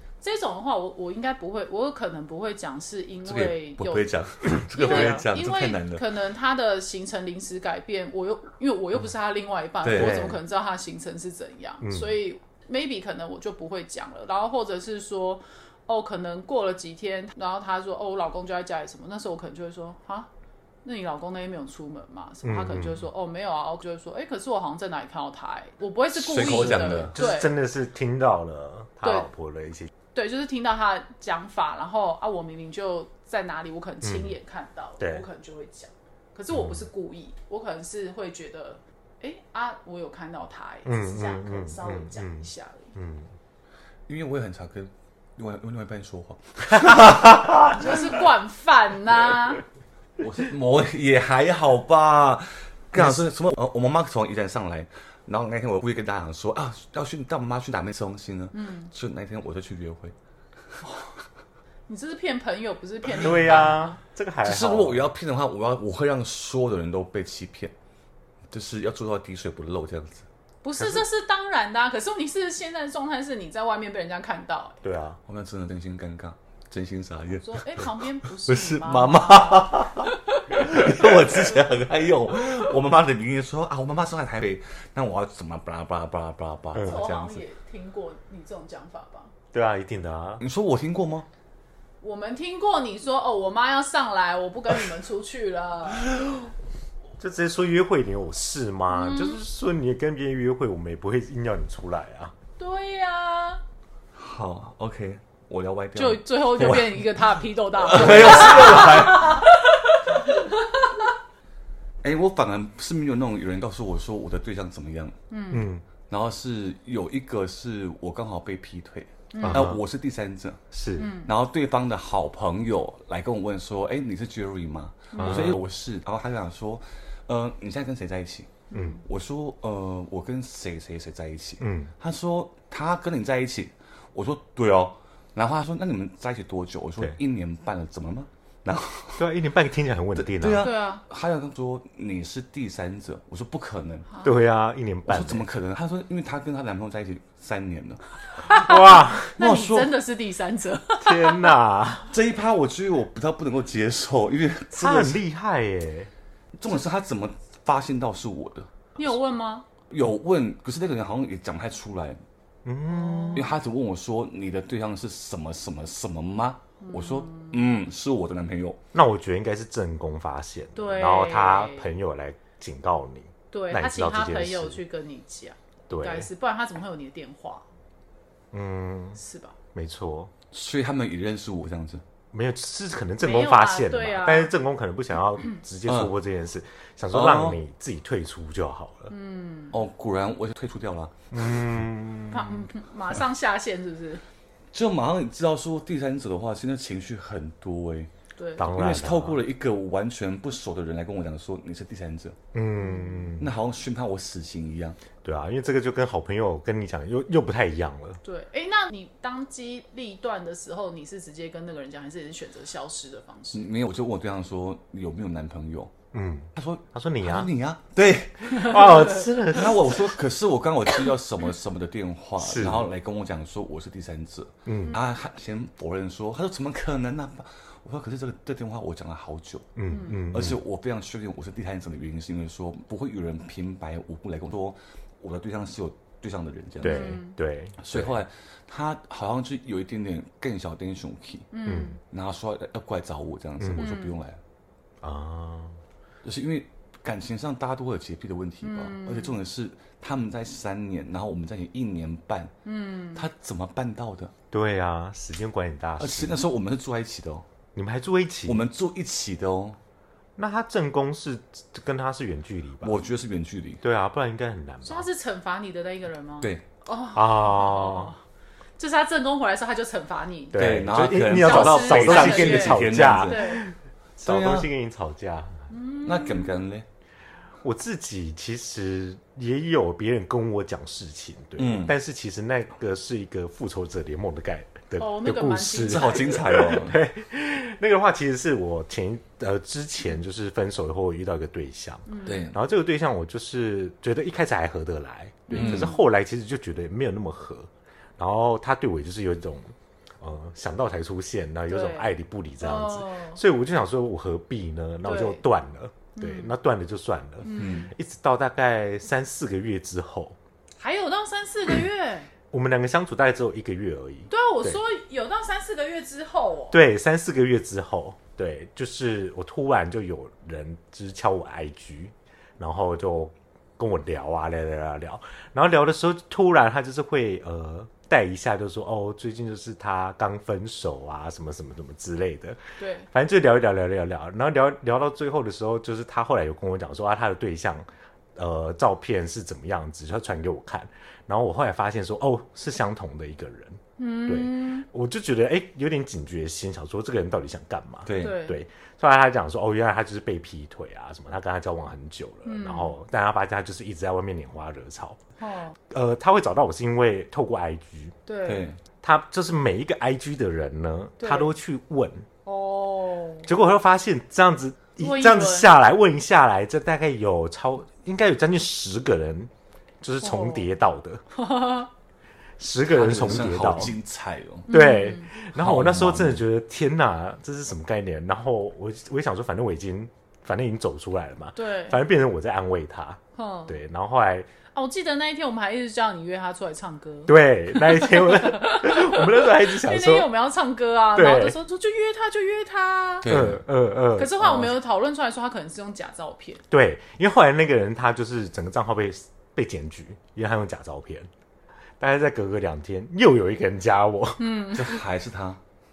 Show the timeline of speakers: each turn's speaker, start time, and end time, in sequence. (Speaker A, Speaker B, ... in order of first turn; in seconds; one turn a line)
Speaker A: 0.2-20.3
Speaker B: 3.2-6.1
Speaker C: 4.8-5.2
Speaker B: 9.8-10.3
Speaker C: 10.0-10.3
Speaker C: 11.8-12.1
Speaker A: 20.8-27.5
Speaker C: 22.4-23.1
Speaker B: 26.1-27.1
Speaker C: 26.4-29.9
Speaker A: 29.0-29.3
Speaker A: 30.1-42.9
Speaker C: 34.0-34.4
Speaker C: 35.0-35.2
Speaker C: 36.5-36.9
Speaker C: 40.9-43.3
Speaker B: 44.1-48.1
Speaker A: 47.7-49.6
Speaker B: 50.2-60.1
Speaker C: 53.0-53.2
Speaker A: 58.5-58.9
Speaker A: 61.9-64.0
Speaker C: 63.2-65.0
Speaker B: 64.4-67.7
Speaker B: 68.5-70.3
Speaker A: 70.6-74.8
Speaker C: 74.8-75.2
Speaker B: 75.3-77.9
Speaker A: 77.4-81.0
Speaker B: 78.4-87.4
Speaker C: 86.7-87.0
Speaker A: 86.8-89.3
Speaker C: 89.5-90.4
Speaker B: 90.4-91.3
Speaker A: 92.0-96.2
Speaker C: 97.2-102.3
Speaker A: 98.9-99.4
Speaker A: 102.6-103.6
Speaker B: 104.1-106.8
Speaker A: 105.9-111.0
Speaker B: 107.8-109.4
Speaker B: 112.0-115.2
Speaker A: 115.3-115.7
Speaker C: 115.5-115.8
Speaker B: 116.1-120.6
Speaker A: 119.3-119.7
Speaker C: 119.4-119.8
Speaker C: 120.7-121.1
Speaker A: 121.0-121.3
Speaker B: 121.2-139.3
Speaker A: 125.1-125.5
Speaker C: 125.2-125.6
Speaker A: 128.7-129.0
Speaker C: 131.6-131.9
Speaker C: 139.2-140.7
Speaker B: 140.1-144.1
Speaker A: 140.6-141.0
Speaker C: 144.2-145.5
Speaker B: 145.1-148.7
Speaker A: 148.3-151.5
Speaker C: 148.5-149.4
Speaker B: 149.4-150.0
Speaker C: 151.0-152.1
Speaker B: 152.1-155.2
Speaker C: 154.7-156.1
Speaker B: 156.5-158.7
Speaker A: 159.0-159.7
Speaker B: 159.9-162.2
Speaker C: 162.6-163.5
Speaker A: 162.9-163.4
Speaker B: 163.3-168.8
Speaker A: 166.8-167.6
Speaker C: 168.9-174.8
Speaker A: 170.7-171.9
Speaker A: 173.5-177.7
Speaker C: 175.9-176.3
Speaker C: 178.5-179.2
Speaker A: 179.2-179.6
Speaker C: 179.7-180.3
Speaker B: 180.5-182.0
Speaker C: 182.3-189.1
Speaker A: 183.2-184.5
Speaker B: 185.8-186.1
Speaker B: 187.1-187.6
Speaker A: 189.1-189.7
Speaker B: 189.7-191.7
Speaker C: 191.3-192.7
Speaker A: 192.3-194.2
Speaker B: 194.7-198.1
Speaker A: 198.3-198.8
Speaker C: 198.6-199.4
Speaker B: 198.7-202.4
Speaker C: 202.5-203.5
Speaker A: 202.8-203.3
Speaker B: 203.4-205.0
Speaker C: 205.2-208.2
Speaker A: 208.2-213.7
Speaker B: 213.5-215.9
Speaker C: 216.1-217.5
Speaker B: 216.6-229.8
Speaker C: 218.4-220.2
Speaker C: 222.4-222.9
Speaker C: 224.7-225.0
Speaker C: 229.8-230.6
Speaker A: 229.9-230.2
Speaker B: 230.3-237.2
Speaker A: 236.8-237.3
Speaker C: 236.8-238.1
Speaker B: 237.8-241.5
Speaker A: 241.5-242.0
Speaker C: 241.7-242.0
Speaker B: 242.1-244.4
Speaker C: 243.6-243.8
Speaker A: 243.8-244.2
Speaker C: 245.0-245.8
Speaker B: 246.2-252.5
Speaker A: 248.6-249.4
Speaker A: 252.6-253.2
Speaker B: 253.1-254.3
Speaker C: 254.5-256.4
Speaker B: 256.0-257.4
Speaker C: 257.7-258.6
Speaker B: 258.5-259.8
Speaker C: 260.4-263.0
Speaker B: 262.8-263.8
Speaker C: 263.8-265.1
Speaker A: 264.8-268.2
Speaker C: 267.1-268.1
Speaker A: 268.8-270.6
Speaker C: 270.5-275.7
Speaker B: 270.5-273.6
Speaker A: 271.3-273.6
Speaker B: 274.2-274.7
Speaker A: 275.7-276.5
Speaker B: 276.0-276.9
Speaker C: 277.6-310.4
Speaker B: 281.6-281.9
Speaker A: 285.0-286.8
Speaker B: 285.8-287.0
Speaker A: 292.1-292.4
Speaker B: 292.2-292.6
Speaker A: 295.5-296.0
Speaker B: 295.5-295.9
Speaker A: 301.7-303.4
Speaker A: 305.0-305.4
Speaker A: 306.1-306.5
Speaker A: 307.4-307.9
Speaker B: 307.5-307.9
Speaker A: 310.8-312.3
Speaker C: 312.5-314.8
Speaker A: 314.3-316.8
Speaker C: 316.7-355.2
Speaker A: 332.8-333.1
Speaker A: 344.0-344.9
Speaker B: 348.1-348.4
Speaker A: 348.2-348.6
Speaker A: 352.4-352.9
Speaker A: 355.4-355.8
Speaker C: 355.9-358.1
Speaker A: 358.2-358.6
Speaker B: 358.4-358.8
Speaker C: 359.0-362.3
Speaker A: 361.2-361.5
Speaker A: 362.4-363.5
Speaker C: 363.4-371.2
Speaker A: 365.0-365.7
Speaker A: 370.2-370.7
Speaker A: 371.3-371.9
Speaker C: 372.6-373.9
Speaker B: 372.9-374.7
Speaker A: 374.7-375.3
Speaker C: 374.7-384.5
Speaker B: 375.5-376.4
Speaker A: 381.6-382.0
Speaker A: 383.4-383.8
Speaker A: 384.7-393.4
Speaker C: 387.2-390.3
Speaker C: 391.1-391.6
Speaker B: 393.2-393.6
Speaker C: 393.2-394.8
Speaker A: 394.1-396.6
Speaker C: 396.7-401.3
Speaker C: 402.0-405.0
Speaker A: 404.4-404.9
Speaker B: 404.7-405.6